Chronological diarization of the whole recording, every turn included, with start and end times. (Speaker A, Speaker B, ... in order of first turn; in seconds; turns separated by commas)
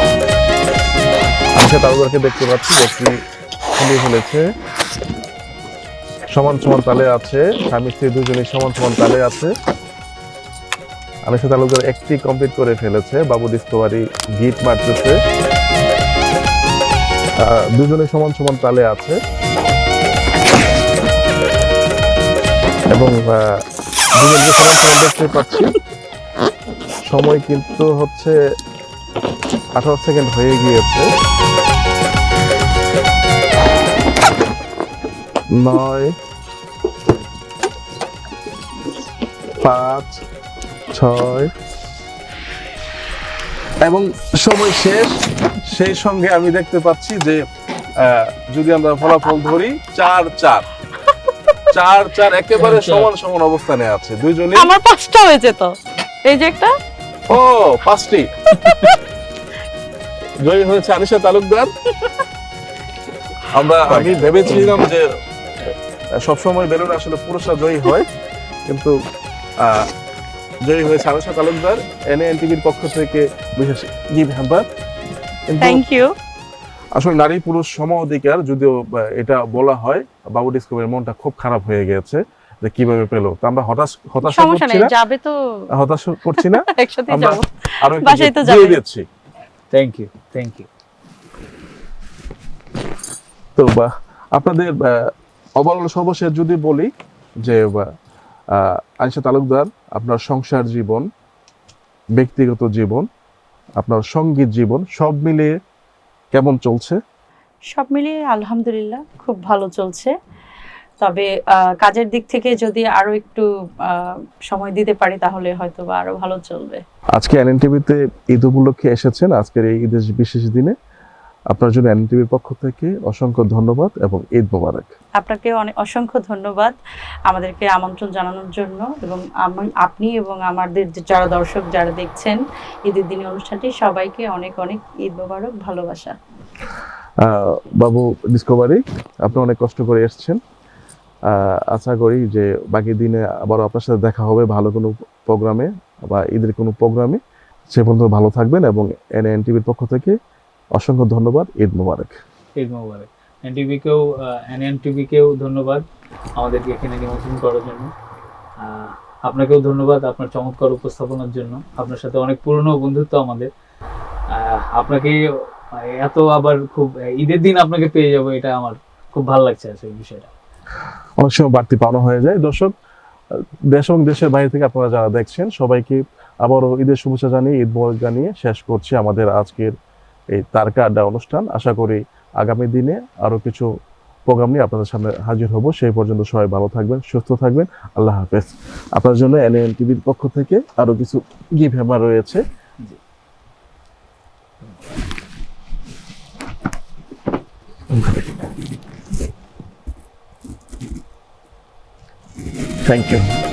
Speaker A: 1.5-3.1, Speaker A: 3.7-4.5, Speaker A: 6.3-9.5, Speaker A: 11.2-15.2, Speaker A: 17.4-19.2, Speaker A: 22.9-23.6, Speaker A: 24.2-25.7, Speaker A: 27.0-28.4, Speaker A: 29.7-31.1, Speaker A: 35.5-36.1, Speaker A: 39.6-40.2, Speaker A: 40.9-41.5, Speaker A: 43.8-47.4, Speaker A: 48.0-50.6, Speaker B: 49.1-49.4, Speaker A: 51.7-54.7, Speaker C: 52.5-53.1, Speaker B: 54.6-55.7, Speaker B: 56.2-56.7, Speaker A: 57.3-58.3, Speaker B: 58.5-58.9, Speaker A: 60.4-61.7, Speaker A: 63.5-65.0, Speaker C: 63.9-64.8, Speaker A: 66.2-68.1, Speaker A: 68.7-68.9, Speaker A: 69.6-69.9, Speaker A: 70.6-74.7, Speaker A: 75.5-75.8, Speaker B: 75.6-76.1, Speaker A: 76.9-84.9, Speaker B: 84.2-85.3, Speaker A: 85.7-89.0, Speaker B: 86.3-88.8, Speaker C: 89.7-90.7, Speaker A: 93.5-96.9, Speaker A: 97.4-97.8, Speaker A: 98.5-101.0, Speaker A: 102.2-103.0, Speaker A: 103.8-105.5, Speaker A: 106.3-107.0, Speaker B: 107.7-110.1, Speaker B: 111.0-116.8, Speaker A: 117.1-120.7, Speaker A: 121.5-124.9, Speaker B: 125.2-126.8, Speaker B: 127.3-136.1, Speaker A: 137.2-140.4, Speaker A: 141.3-150.1, Speaker A: 150.7-152.1, Speaker C: 152.6-155.8, Speaker C: 156.3-157.9, Speaker C: 158.6-163.5, Speaker C: 164.3-165.2, Speaker C: 165.8-170.3, Speaker A: 171.2-172.7, Speaker A: 173.7-179.7, Speaker A: 180.3-183.7, Speaker A: 184.2-192.4, Speaker A: 197.9-198.2, Speaker A: 202.8-203.2